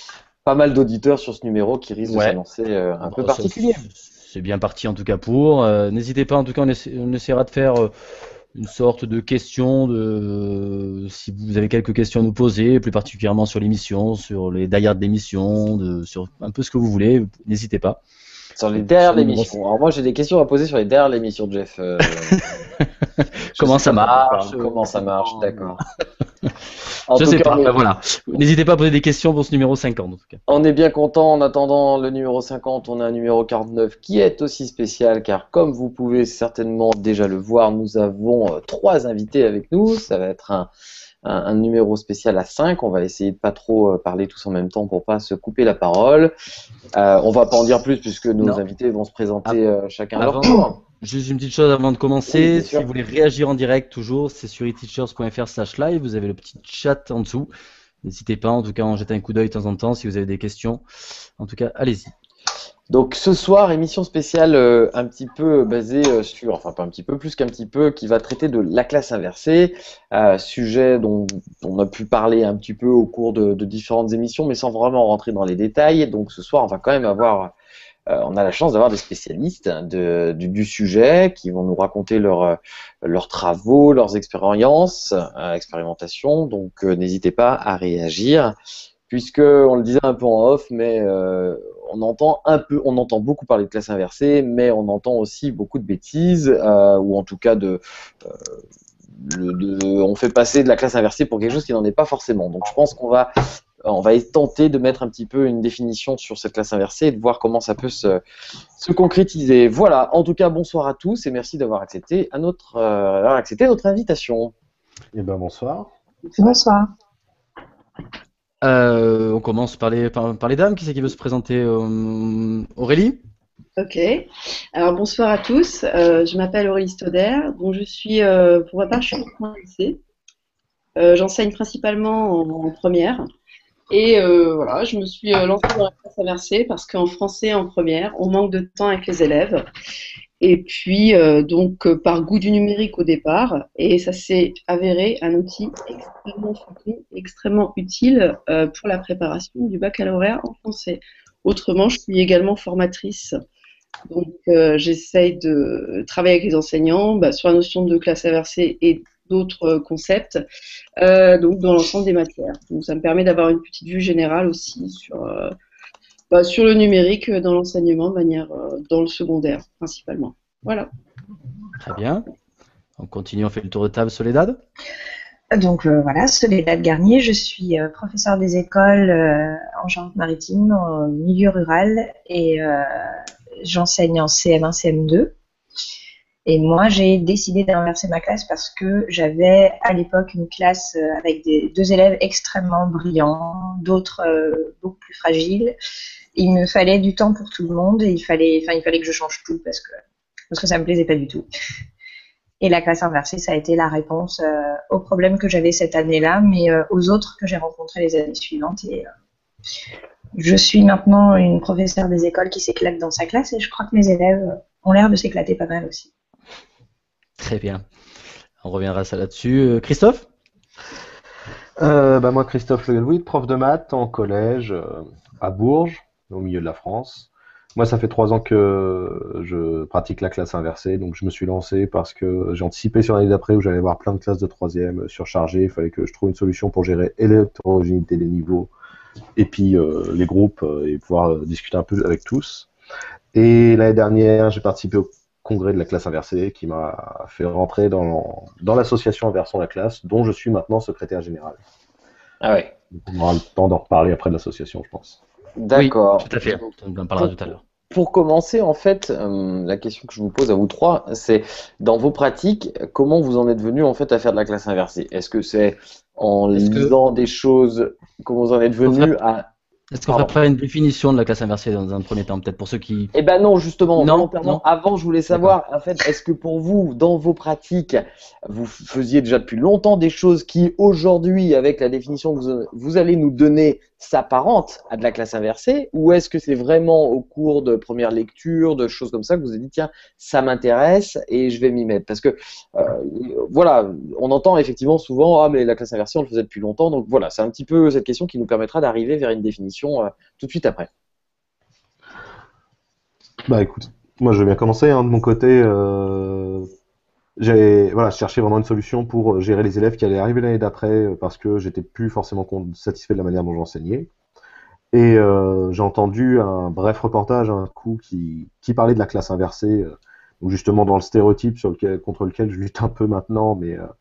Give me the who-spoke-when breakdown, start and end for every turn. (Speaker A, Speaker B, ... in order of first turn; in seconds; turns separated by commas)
Speaker A: 0.4-3.9, Speaker B: 2.0-2.4, Speaker B: 3.0-7.9, Speaker B: 8.5-18.0, Speaker A: 18.6-22.6, Speaker B: 18.8-19.5, Speaker B: 22.4-25.8, Speaker A: 23.5-25.8, Speaker A: 27.1-27.8, Speaker B: 27.1-30.4, Speaker A: 30.5-40.7, Speaker A: 41.2-46.3, Speaker A: 46.9-50.8, Speaker B: 50.1-57.5, Speaker A: 52.3-52.9, Speaker B: 58.0-60.8, Speaker B: 61.4-62.1, Speaker A: 62.9-77.5, Speaker A: 78.1-88.5, Speaker A: 89.1-98.6, Speaker A: 99.2-103.3, Speaker A: 103.8-108.2, Speaker A: 108.8-114.5, Speaker C: 115.1-115.9, Speaker D: 116.2-116.6, Speaker E: 116.4-116.9, Speaker B: 118.6-123.2, Speaker D: 123.8-130.0, Speaker D: 131.0-133.2, Speaker D: 133.9-139.7, Speaker D: 140.4-153.3, Speaker D: 154.1-160.4, Speaker D: 161.0-165.5, Speaker D: 166.3-170.9, Speaker B: 171.8-172.2, Speaker B: 173.0-174.6, Speaker E: 175.6-183.1, Speaker E: 183.6-185.3, Speaker E: 186.4-195.7, Speaker E: 196.3-199.9, Speaker E: 200.5-201.4, Speaker E: 202.6-209.1, Speaker E: 210.3-216.1, Speaker B: 217.4-217.8, Speaker B: 218.6-220.2, Speaker C: 221.8-238.7, Speaker C: 239.4-242.7, Speaker C: 243.3-251.6, Speaker A: 252.4-252.7, Speaker C: 252.9-255.2, Speaker A: 255.6-257.3, Speaker B: 255.7-257.6, Speaker A: 257.9-269.5, Speaker B: 266.5-266.9, Speaker B: 268.9-269.1, Speaker B: 269.9-273.1, Speaker A: 270.1-270.3, Speaker A: 273.1-300.9, Speaker B: 274.0-274.6, Speaker C: 303.5-306.7, Speaker C: 307.4-314.1, Speaker C: 314.9-323.9